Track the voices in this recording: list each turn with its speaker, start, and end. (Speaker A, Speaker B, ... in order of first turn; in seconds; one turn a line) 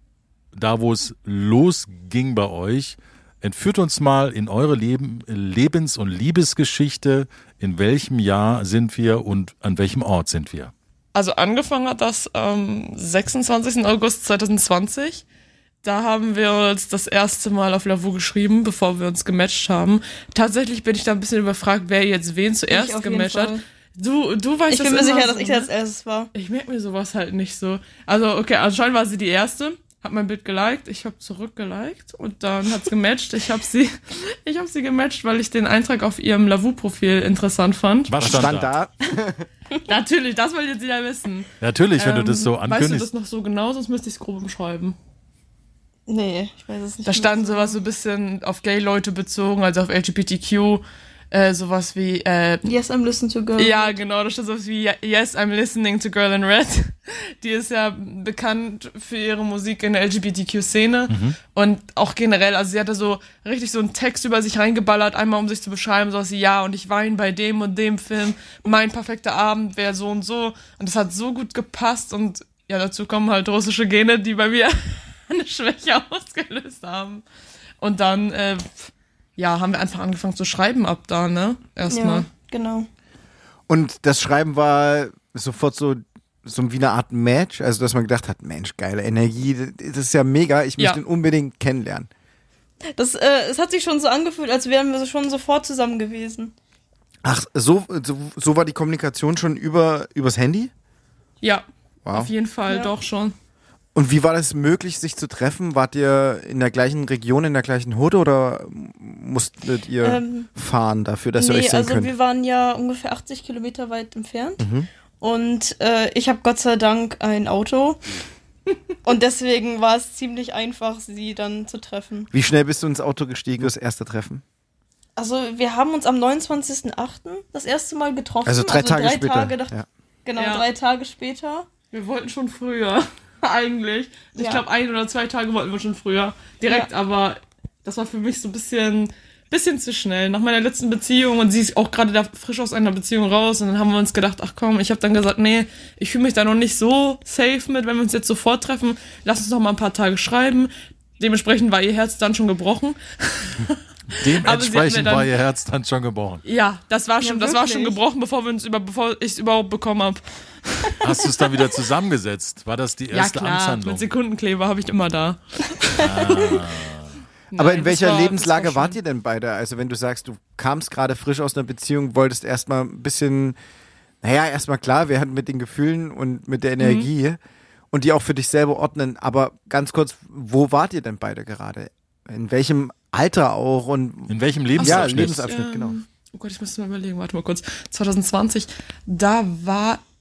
Speaker A: 0.6-10.7
Speaker B: 11.2-15.2
Speaker B: 15.8-25.7
Speaker C: 22.7-23.6
Speaker C: 24.7-26.3
Speaker B: 26.3-38.2
Speaker A: 38.1-38.7
Speaker D: 38.2-39.5
Speaker B: 39.8-45.0
Speaker A: 41.6-43.1
Speaker C: 46.1-47.8
Speaker B: 47.0-52.7
Speaker C: 52.6-54.0
Speaker B: 53.6-77.2
Speaker A: 61.1-61.4
Speaker B: 77.8-82.3
Speaker C: 81.9-82.9
Speaker D: 83.7-92.1
Speaker C: 93.0-96.5
Speaker D: 97.2-100.7
Speaker B: 101.4-103.3
Speaker D: 102.1-102.3
Speaker D: 104.0-112.1
Speaker C: 110.0-110.5
Speaker C: 111.4-114.7
Speaker D: 114.6-114.9
Speaker C: 115.2-118.0
Speaker C: 119.0-122.3
Speaker D: 122.3-124.4
Speaker C: 125.2-129.7
Speaker D: 128.5-129.9
Speaker C: 130.2-131.7
Speaker B: 130.4-130.7
Speaker B: 131.9-155.3
Speaker C: 134.4-134.6
Speaker A: 154.1-156.4
Speaker B: 156.4-161.4
Speaker C: 157.2-158.0
Speaker A: 161.0-164.1
Speaker B: 163.1-166.9
Speaker A: 166.0-167.1
Speaker B: 167.5-169.0
Speaker D: 167.6-173.6
Speaker D: 174.2-177.4
Speaker B: 176.8-177.1
Speaker D: 177.9-186.0
Speaker A: 184.3-185.4
Speaker B: 184.8-190.0